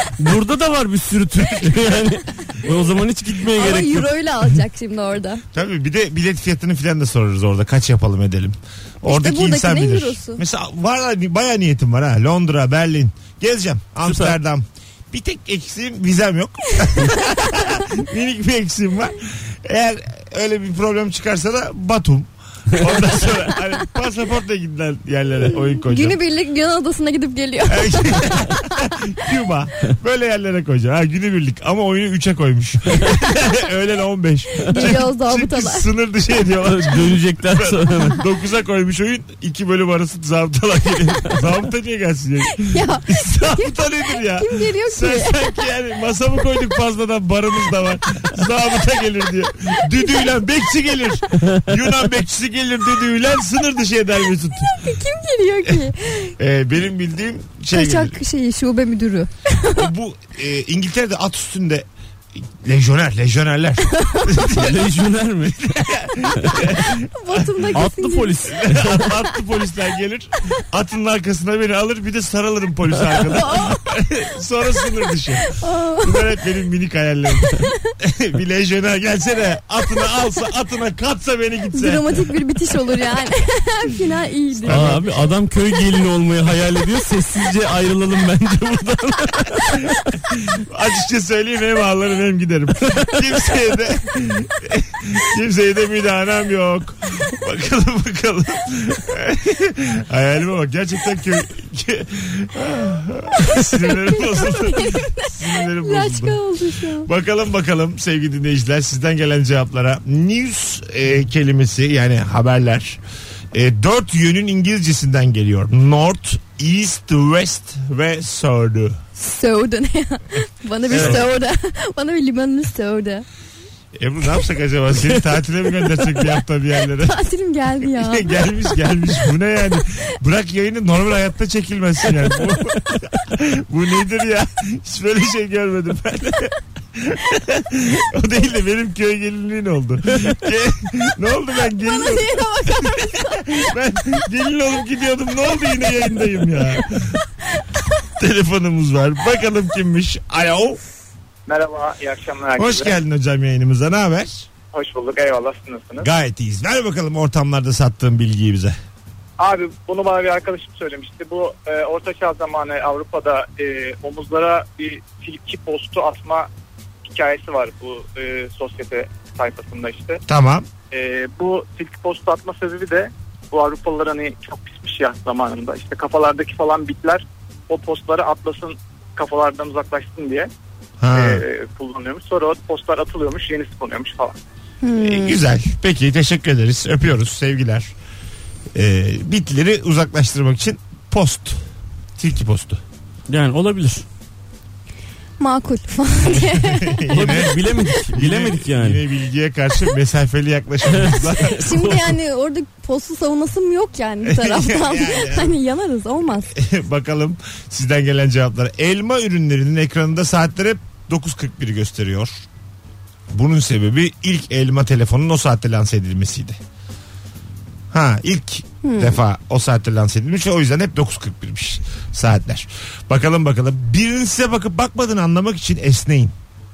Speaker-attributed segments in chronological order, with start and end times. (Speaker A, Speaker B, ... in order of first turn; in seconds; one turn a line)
Speaker A: 0.2-4.2
Speaker B: 3.5-5.4
Speaker C: 5.5-26.2
Speaker B: 9.0-10.4
Speaker A: 14.0-14.3
Speaker B: 25.9-28.6
Speaker C: 27.7-54.8
Speaker B: 34.7-35.9
Speaker A: 36.6-38.2
Speaker B: 42.5-45.6
Speaker B: 54.6-56.3
Speaker C: 56.4-58.2
Speaker B: 57.7-59.9
Speaker C: 59.7-61.9
Speaker C: 62.4-67.8
Speaker B: 63.9-64.4
Speaker A: 64.4-65.8
Speaker A: 66.3-66.8
Speaker B: 67.1-68.5
Speaker A: 67.7-69.1
Speaker C: 68.4-82.1
Speaker B: 73.4-73.9
Speaker B: 75.5-76.4
Speaker B: 81.7-84.9
Speaker C: 84.5-85.3
Speaker A: 84.7-90.0
Speaker C: 90.3-113.0
Speaker B: 103.4-107.1
Speaker C: 113.5-119.0
Speaker B: 119.2-123.2
Speaker C: 120.9-121.2
Speaker A: 120.9-121.2
Speaker C: 123.9-127.2
Speaker B: 126.8-128.7
Speaker C: 127.8-147.2
Speaker B: 141.7-143.7
Speaker C: 148.2-150.8
Speaker D: 151.4-152.9
Speaker C: 152.6-154.5
Speaker D: 154.7-156.1
Speaker C: 156.0-158.8
Speaker D: 159.4-166.5
Speaker D: 167.0-170.2
Speaker C: 170.3-170.7
Speaker D: 170.9-180.5
Speaker C: 181.0-181.4
Speaker D: 181.1-184.3
Speaker B: 184.8-185.4
Speaker C: 185.0-187.9
Speaker C: 188.7-191.6
Speaker C: 192.2-192.8
Speaker A: 193.3-194.0
Speaker B: 195.4-197.4
Speaker C: 196.2-201.6
Speaker A: 197.1-199.0
Speaker A: 200.9-202.2
Speaker B: 201.3-206.5
Speaker C: 204.2-205.6
Speaker C: 206.5-212.4
Speaker C: 213.3-216.6
Speaker C: 217.9-226.3
Speaker B: 218.8-219.2